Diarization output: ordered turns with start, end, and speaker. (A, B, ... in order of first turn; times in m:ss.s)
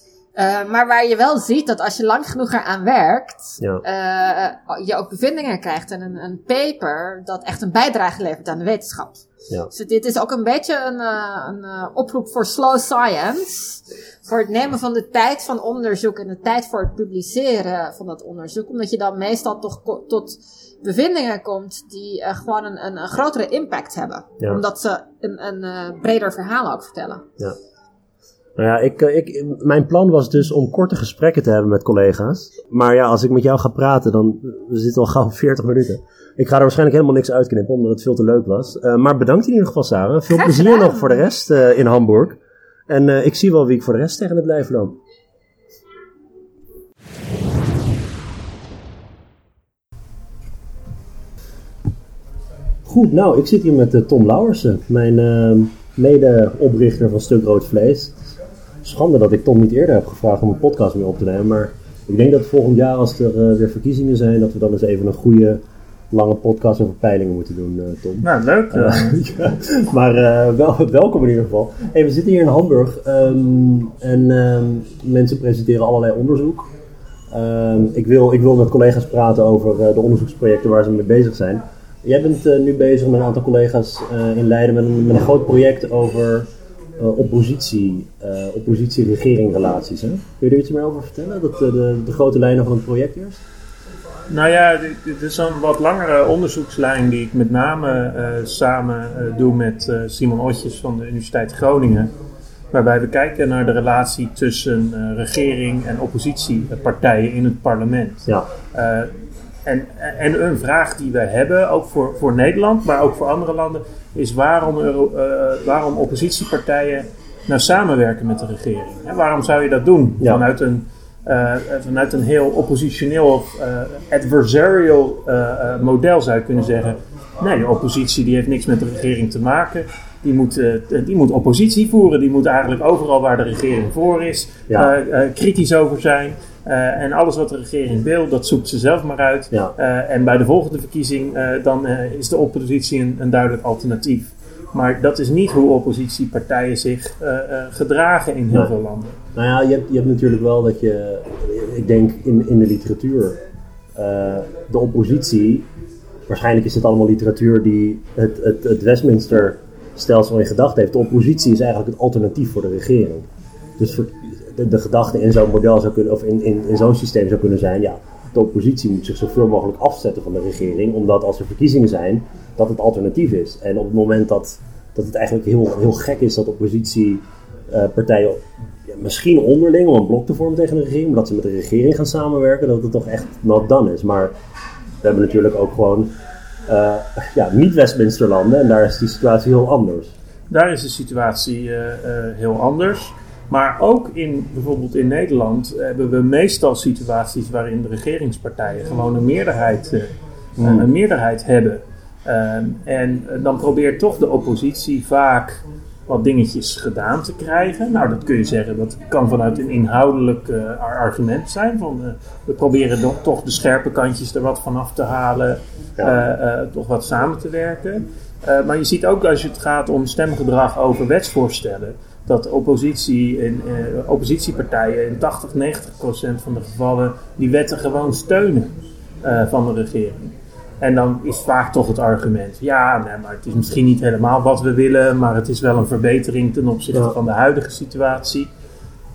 0:00.4-0:27.3 A
0:28.6-0:45.0 B
0:40.3-0:41.2 A
0:52.8-0:58.2 B
0:58.8-1:16.7 B
1:08.2-1:09.2 C
1:17.3-1:33.4 B
1:34.3-1:42.1 C
1:42.7-1:49.1 C
1:49.6-2:29.2 C
2:29.3-2:33.4 B
2:33.9-2:35.7 B
2:36.3-2:43.2 B
2:43.8-3:04.3 B
3:05.0-3:06.1 B
3:06.7-3:10.1 B
3:10.5-3:58.5 C
3:20.6-3:20.9 B